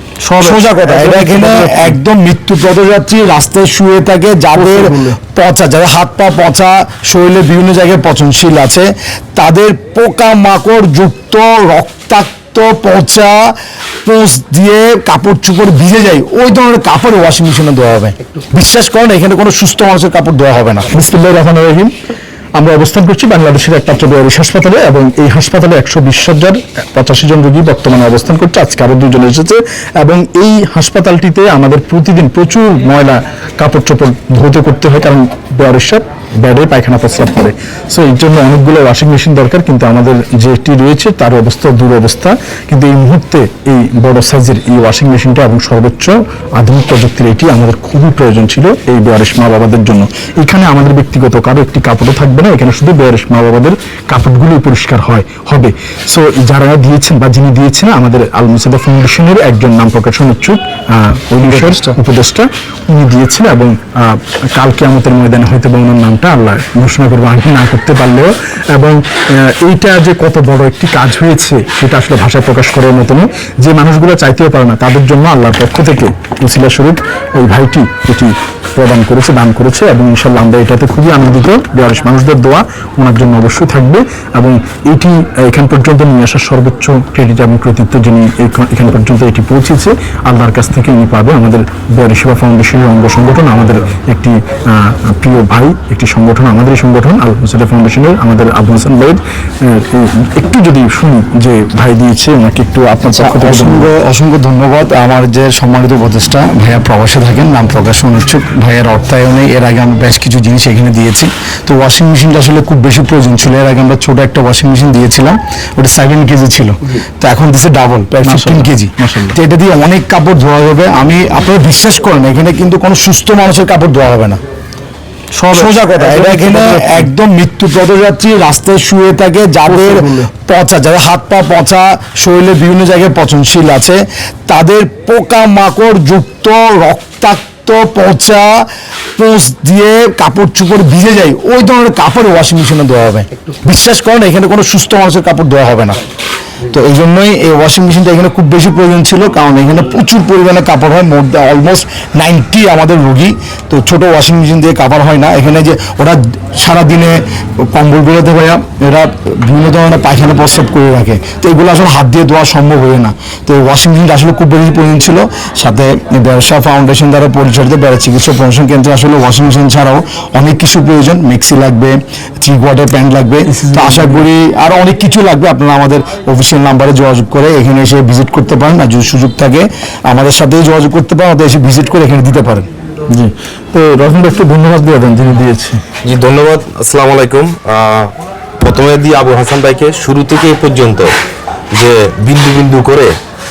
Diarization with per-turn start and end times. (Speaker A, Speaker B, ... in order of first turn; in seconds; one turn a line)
Speaker A: 0.2-2.0
Speaker B: 0.4-13.4
Speaker A: 4.6-5.1
Speaker B: 14.1-20.9
Speaker A: 20.9-21.9
Speaker A: 22.6-103.9
Speaker B: 61.5-61.8
Speaker B: 103.1-124.4
Speaker A: 118.2-119.3
Speaker A: 125.4-127.1
Speaker B: 125.5-138.6
Speaker A: 129.7-130.2
Speaker B: 139.2-146.0
Speaker B: 146.7-182.7
Speaker A: 173.6-174.2
Speaker A: 183.1-185.8
Speaker C: 186.0-188.1
Speaker C: 188.6-191.1
Speaker C: 191.8-193.1